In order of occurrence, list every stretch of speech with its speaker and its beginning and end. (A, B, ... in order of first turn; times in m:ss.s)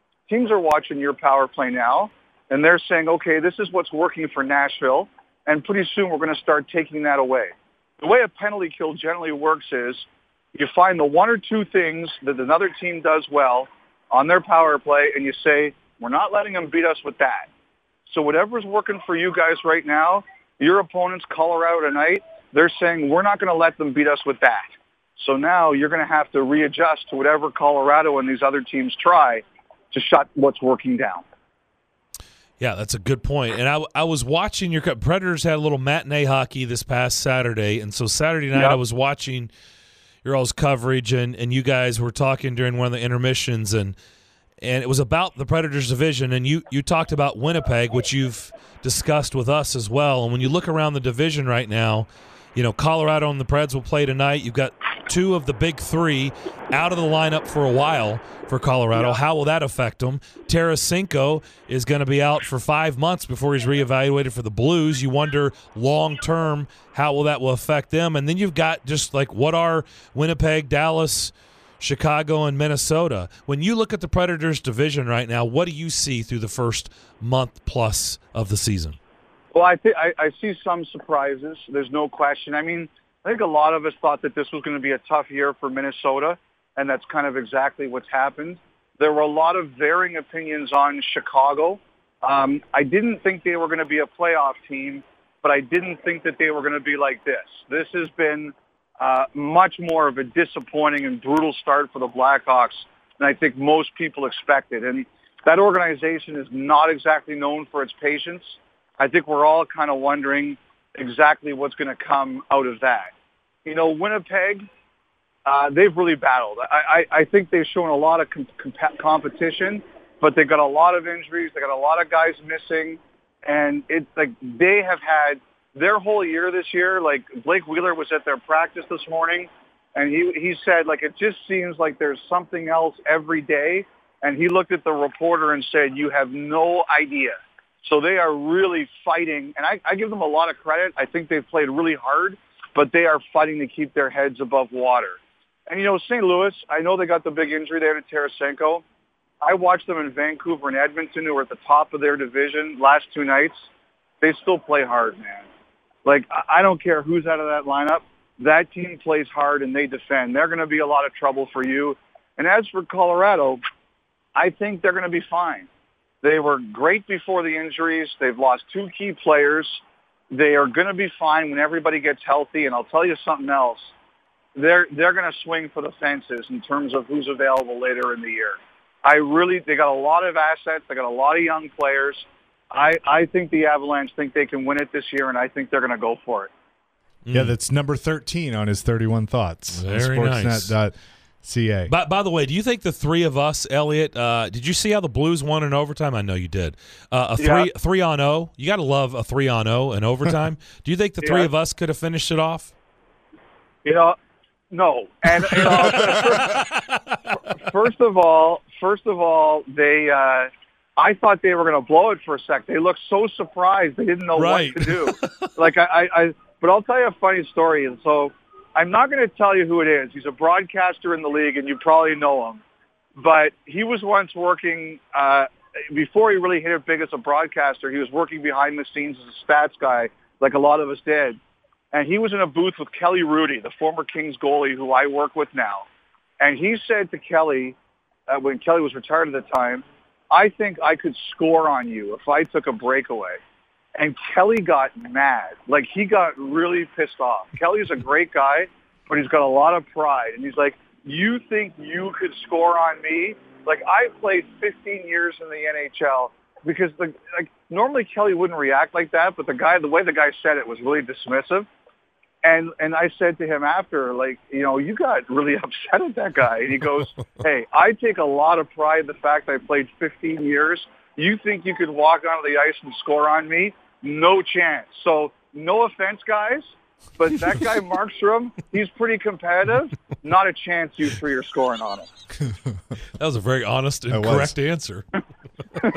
0:00.3-0:17.5 A
0:18.1-0:31.2 A
0:32.6-0:39.5 B
0:38.5-0:38.8 A
0:40.2-0:44.0 B
0:44.6-1:19.0 B
1:19.5-1:53.1 A
1:53.6-1:54.7 A
1:55.4-2:28.8 A
2:29.4-2:33.7 A
2:34.2-2:35.5 A
2:36.0-2:43.6 A
2:44.4-2:45.7 A
2:46.2-2:53.9 A
2:54.6-3:06.5 A
3:07.2-3:07.6 B
3:07.3-3:11.9 C
3:09.7-3:10.8 B
3:11.9-3:22.7 B
3:17.4-3:17.7 A
3:21.2-3:21.5 A
3:23.8-3:24.2 A
3:24.7-3:26.7 A
3:25.4-3:27.2 B
3:27.5-3:42.6 A
3:34.4-3:35.5 B
3:43.2-3:51.4 A
3:51.9-3:55.9 A
3:56.4-3:57.8 A
3:58.3-4:03.4 A
4:04.0-4:21.7 A
4:22.4-4:42.1 A
4:43.1-4:45.1 B
4:44.1-4:44.6 C